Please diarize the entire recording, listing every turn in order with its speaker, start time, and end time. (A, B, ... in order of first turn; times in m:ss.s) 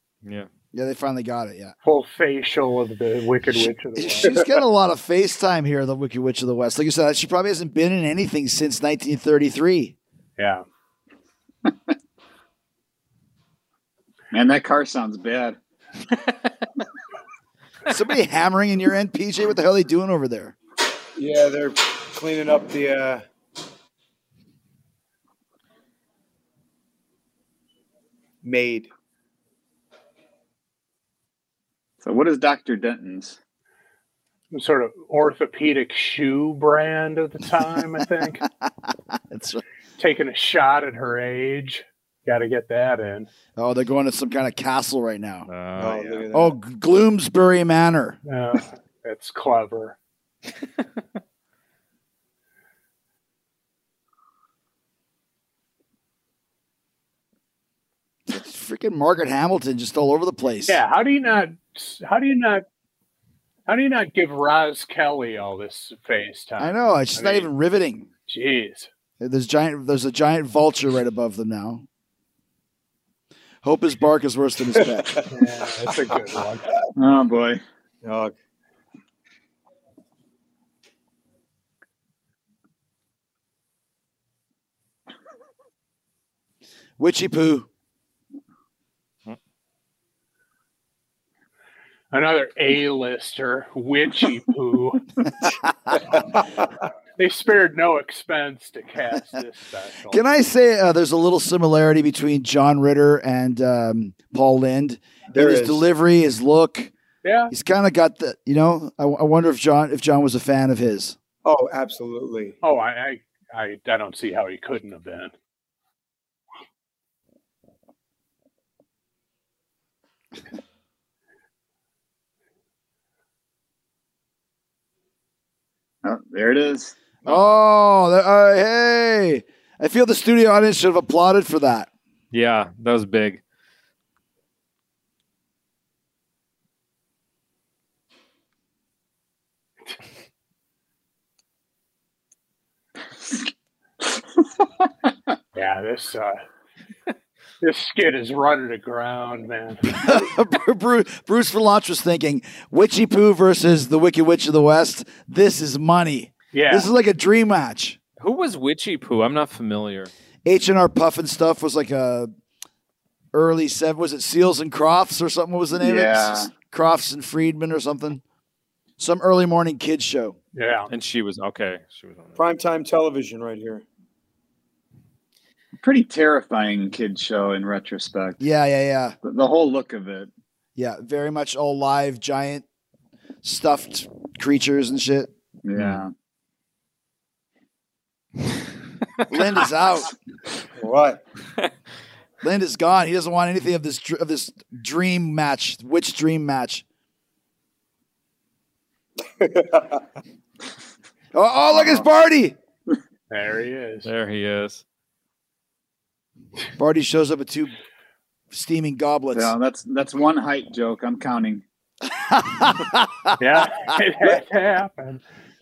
0:00.7-0:01.8 A
0:01.8-0:04.5 B
0:03.5-0:10.0 A
0:10.4-0:10.6 B
0:14.3-0:15.6 C
0:17.9-0:20.6 A
0:21.2-0:23.2 D
0:28.4-0:28.9 D
0:32.0-0:33.4 C
0:34.5-0:38.4 B
0:39.3-0:39.6 A
0:40.0-0:43.3 B
0:43.6-0:45.5 A
0:45.5-0:46.2 E
0:45.8-0:46.6 D
0:46.3-0:48.2 A
0:48.3-0:50.0 B
0:58.3-1:00.8 A
1:00.6-1:02.6 B
1:03.7-1:07.5 B
1:06.6-1:08.1 A
1:08.3-1:08.9 B
1:09.2-1:11.8 A
1:13.6-1:15.2 A
1:15.0-1:15.3 D
1:15.3-1:16.7 B
1:17.0-1:17.6 C
1:18.0-1:18.3 D
1:27.0-1:27.7 A
1:32.1-1:35.0 B
1:36.0-1:36.7 D
1:37.2-1:40.2 B
1:40.1-1:46.9 A
1:45.3-1:45.9 D
1:47.2-1:47.5 B
1:47.5-1:51.2 A
1:51.4-1:52.6 D
1:52.6-1:55.3 B
2:06.0-2:07.0 C
2:07.2-2:11.9 A
2:12.3-2:13.4 E
2:25.6-2:26.4 B
2:27.6-2:30.0 B
2:29.9-2:38.0 A
2:36.5-2:36.9 B
2:38.2-2:40.1 E
2:40.4-2:42.3 A
2:43.3-2:48.2 A
2:45.7-2:46.5 C
2:49.0-2:50.4 A
2:50.6-2:50.9 B
2:50.9-2:52.4 E
2:52.4-2:53.8 D
2:55.8-2:58.4 C
2:58.4-2:59.2 A
2:59.2-3:00.3 C
3:00.8-3:02.6 A
3:03.4-3:05.3 A
3:05.6-3:06.1 C
3:05.8-3:06.0 E
3:09.3-3:10.1 A
3:10.8-3:11.2 D
3:12.4-3:16.8 A
3:19.4-3:20.0 D
3:21.3-3:22.6 A
3:21.7-3:22.1 C
3:23.3-3:24.1 B
3:24.0-3:24.8 E
3:26.8-3:27.7 A
3:28.5-3:29.6 A
3:29.3-3:31.6 C
3:32.2-3:33.4 A
3:33.4-3:35.2 B